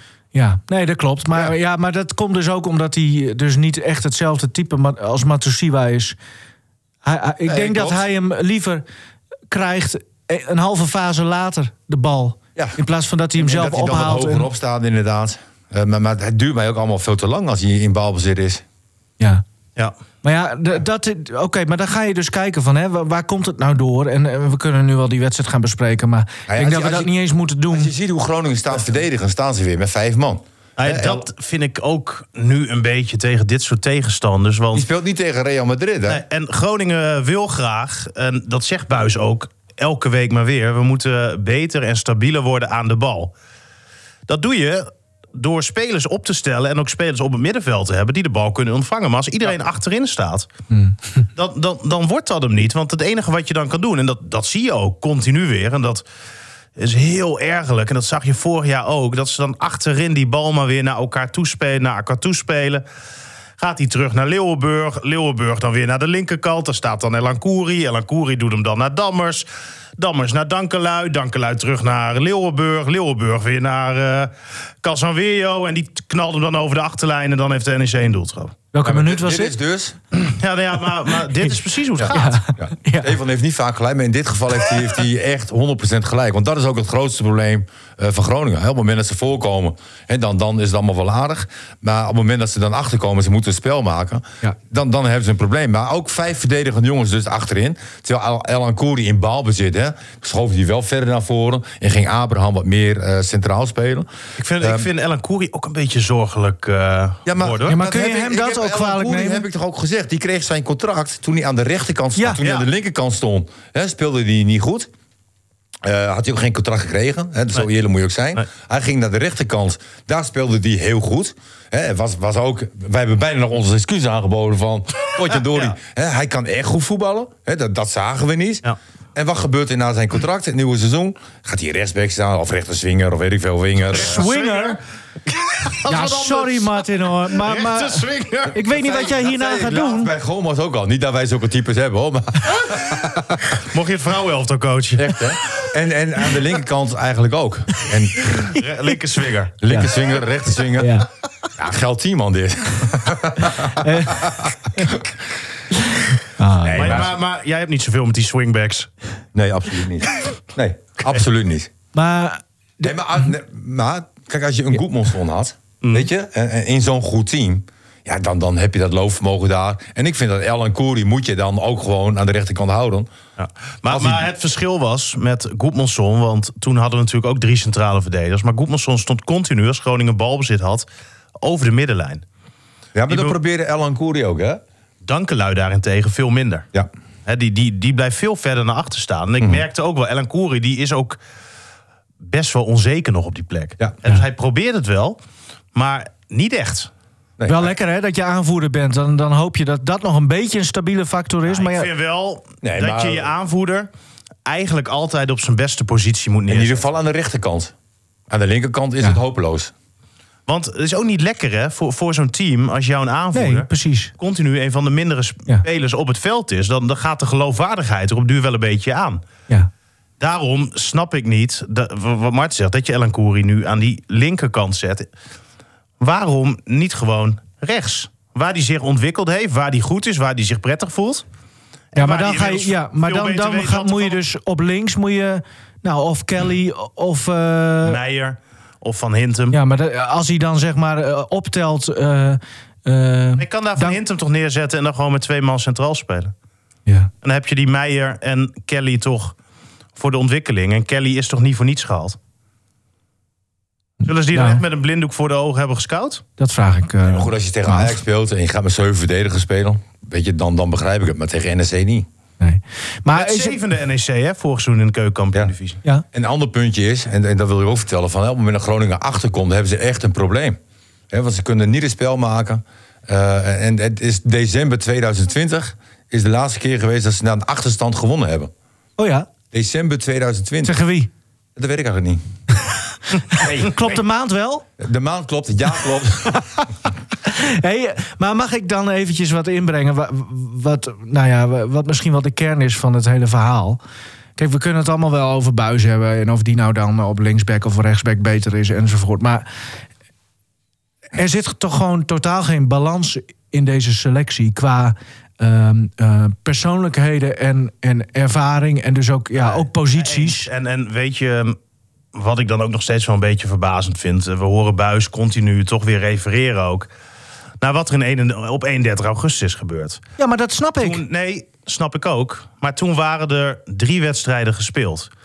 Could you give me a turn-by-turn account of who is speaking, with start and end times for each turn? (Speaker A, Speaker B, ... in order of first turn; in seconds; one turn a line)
Speaker A: 0.3-6.2
Speaker A: 7.0-8.8
Speaker B: 7.5-8.0
Speaker A: 9.5-14.5
Speaker B: 13.4-18.6
Speaker A: 20.2-27.9
Speaker B: 26.5-27.1
Speaker B: 27.7-31.3
Speaker C: 30.8-34.9
Speaker B: 34.7-36.2
Speaker C: 36.1-43.3
Speaker C: 44.3-50.5
Speaker C: 51.4-56.0
Speaker C: 56.8-62.8
Speaker C: 63.6-69.5
Speaker C: 70.0-78.6
Speaker A: 78.7-79.6
Speaker B: 78.8-80.0
Speaker C: 80.4-82.4
Speaker B: 82.0-104.1
Speaker A: 82.1-83.2
Speaker C: 104.4-107.8
Speaker B: 104.6-104.9
Speaker B: 107.3-114.9
Speaker A: 107.7-109.5
Speaker C: 112.4-112.7
Speaker B: 115.8-134.2
Speaker C: 125.5-125.8
Speaker C: 133.9-134.8
Speaker A: 133.9-134.8
Speaker C: 135.6-138.6
Speaker A: 135.8-140.1
Speaker B: 138.7-143.6
Speaker C: 143.7-145.2
Speaker B: 144.9-148.5
Speaker A: 148.4-148.9
Speaker C: 148.6-149.5
Speaker B: 149.6-151.0
Speaker A: 150.8-151.1
Speaker B: 151.6-155.1
Speaker A: 153.8-154.9
Speaker A: 156.0-157.1
Speaker B: 156.6-157.1
Speaker C: 156.7-158.9
Speaker B: 159.3-161.7
Speaker A: 161.9-163.0
Speaker B: 162.8-173.1
Speaker C: 165.8-166.1
Speaker C: 173.4-180.9
Speaker B: 173.9-174.3
Speaker C: 181.4-182.2
Speaker B: 182.9-184.6
Speaker C: 183.1-183.4
Speaker C: 185.0-186.7
Speaker C: 187.3-191.2
Speaker C: 192.2-195.2
Speaker C: 195.8-196.9
Speaker B: 197.4-197.7
Speaker A: 197.5-201.9
Speaker C: 201.5-203.9
Speaker B: 202.6-203.3
Speaker C: 204.5-206.8
Speaker B: 206.5-207.7
Speaker B: 208.3-209.7
Speaker C: 210.5-219.2
Speaker A: 213.3-214.1
Speaker C: 220.2-225.1
Speaker C: 226.0-231.2
Speaker C: 231.9-234.2
Speaker A: 231.9-238.0
Speaker C: 237.8-239.6
Speaker A: 239.5-244.0
Speaker C: 243.4-246.3
Speaker C: 247.2-249.3
Speaker C: 250.0-252.2
Speaker A: 254.0-254.6
Speaker C: 254.1-256.2
Speaker A: 256.4-258.0
Speaker B: 257.0-262.1
Speaker A: 262.4-263.6
Speaker C: 263.1-265.8
Speaker B: 266.1-270.6
Speaker B: 271.1-278.5
Speaker A: 279.0-279.3
Speaker B: 279.5-280.8
Speaker A: 280.6-281.1
Speaker B: 281.6-282.2
Speaker A: 283.3-284.7
Speaker B: 283.4-283.7
Speaker B: 284.8-286.4
Speaker A: 287.2-293.8
Speaker A: 294.4-299.4
Speaker A: 301.1-310.5
Speaker C: 309.4-311.6
Speaker C: 312.1-316.9
Speaker C: 317.6-320.0
Speaker A: 320.2-321.0
Speaker C: 320.8-325.1